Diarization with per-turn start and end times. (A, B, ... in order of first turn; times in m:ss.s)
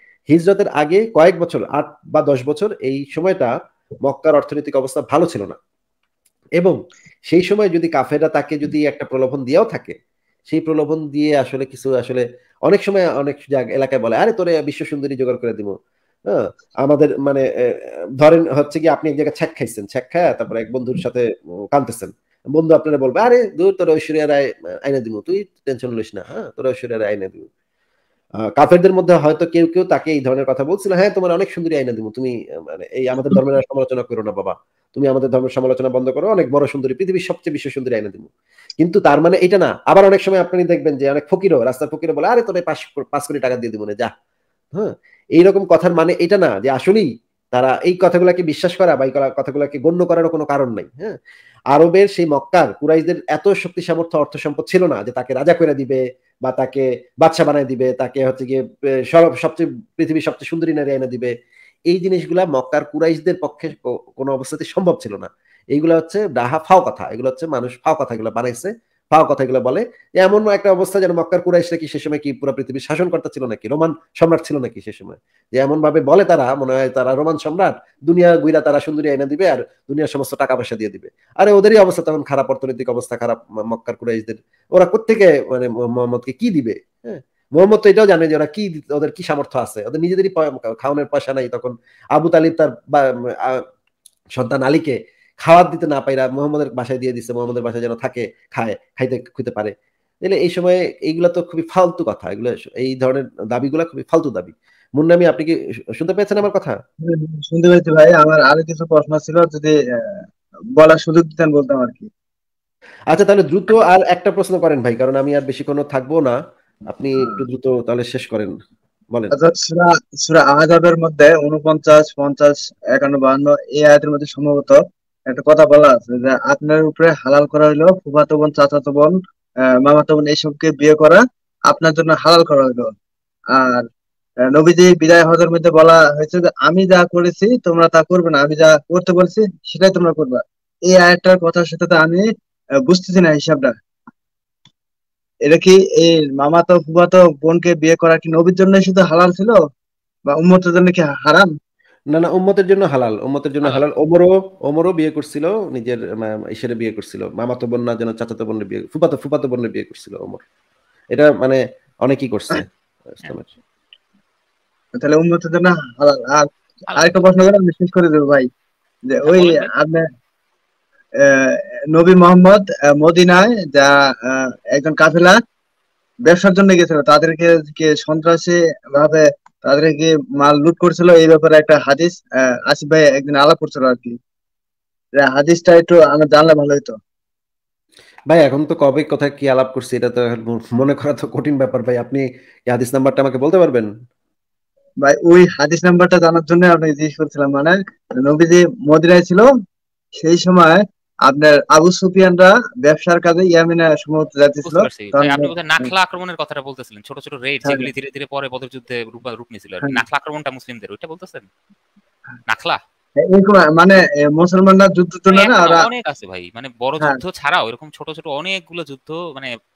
0:00.3-0:03.5 A
0:04.0-0:05.6 A
0:07.3-0:09.9 A
0:10.5-0:15.7 A
0:16.3-0:27.5 A
0:28.6-0:44.1 A
0:44.7-0:51.2 A
0:51.7-1:01.3 A
1:01.9-1:33.6 A
1:34.4-1:46.7 A
1:47.0-1:50.2 B
1:50.8-1:52.1 B
1:53.1-1:56.4 A
1:56.9-1:58.5 A
1:59.3-2:09.2 B
2:09.8-2:12.9 B
2:13.5-2:13.9 B
2:14.5-2:22.2 B
2:22.8-2:23.7 B
2:25.4-2:29.6 B
2:30.3-2:31.5 B
2:32.1-2:40.4 A
2:41.1-2:43.5 A
2:44.9-2:48.5 B
2:46.9-2:47.2 C
2:49.0-2:50.0 B
2:49.2-2:49.7 C
2:51.2-2:55.4 B
2:56.2-3:04.2 B
3:05.1-3:07.0 B
3:08.3-3:13.9 A
3:15.0-3:19.5 B
3:20.2-3:25.9 B
3:24.6-3:31.5 C
3:27.6-3:27.9 B
3:32.5-3:32.8 C
3:33.2-3:35.9 B
3:35.3-3:39.5 C